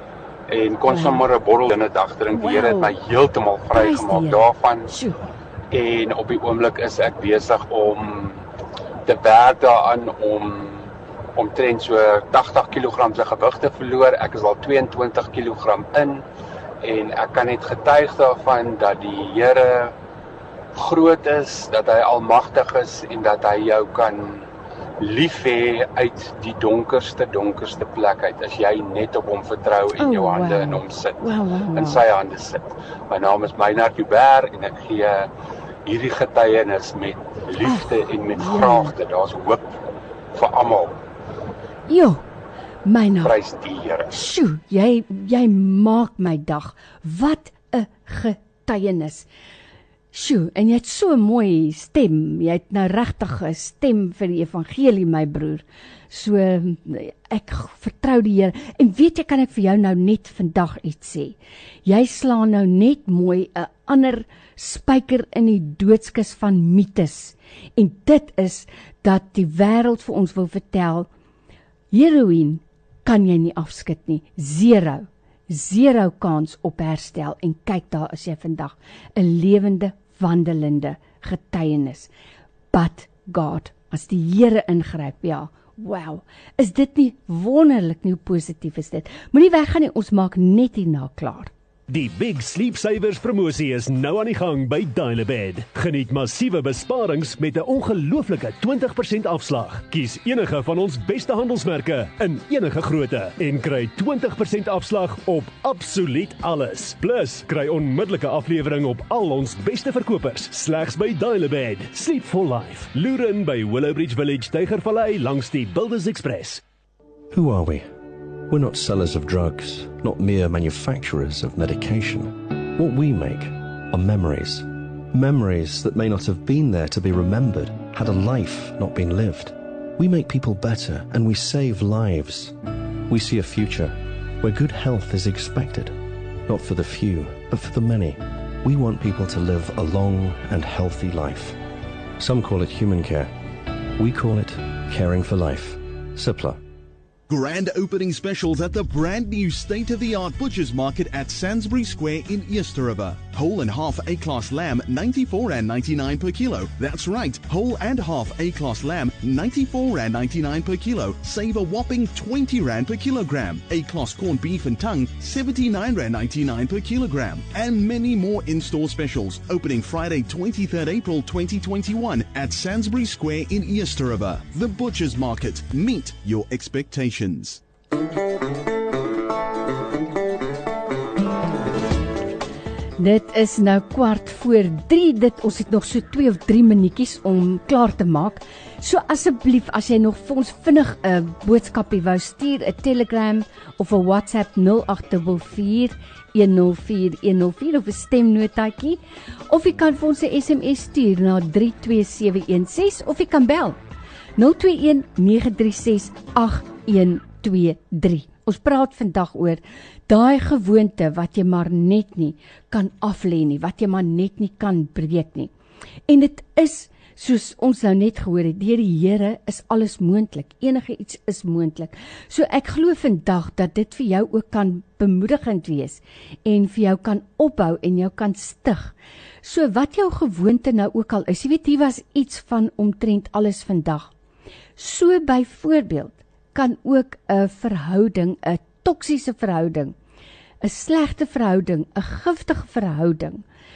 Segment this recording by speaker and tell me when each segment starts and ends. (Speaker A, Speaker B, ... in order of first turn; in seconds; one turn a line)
Speaker A: 0.5-4.9
Speaker B: 0.8-1.2
Speaker B: 2.3-2.9
Speaker B: 3.7-5.2
Speaker A: 5.7-8.4
Speaker A: 9.0-16.2
Speaker A: 16.8-19.9
Speaker A: 20.7-24.5
Speaker A: 25.0-35.3
Speaker B: 30.0-32.0
Speaker A: 35.8-39.7
Speaker B: 37.6-38.9
Speaker A: 40.3-41.0
Speaker B: 41.9-42.2
Speaker B: 42.8-43.3
Speaker A: 43.2-44.2
Speaker B: 44.1-49.2
Speaker B: 50.1-71.1
Speaker B: 71.9-82.1
Speaker B: 82.7-91.5
Speaker C: 91.9-116.6
Speaker D: 117.3-117.9
Speaker D: 118.5-132.5
Speaker D: 133.1-135.9
Speaker D: 136.5-141.6
Speaker D: 142.2-143.3
Speaker D: 143.9-146.6
Speaker E: 147.3-177.6
Speaker B: 183.0-203.8
Speaker B: 204.4-215.5
Speaker B: 216.1-234.1
Speaker B: 234.8-239.9
Speaker B: 240.6-243.4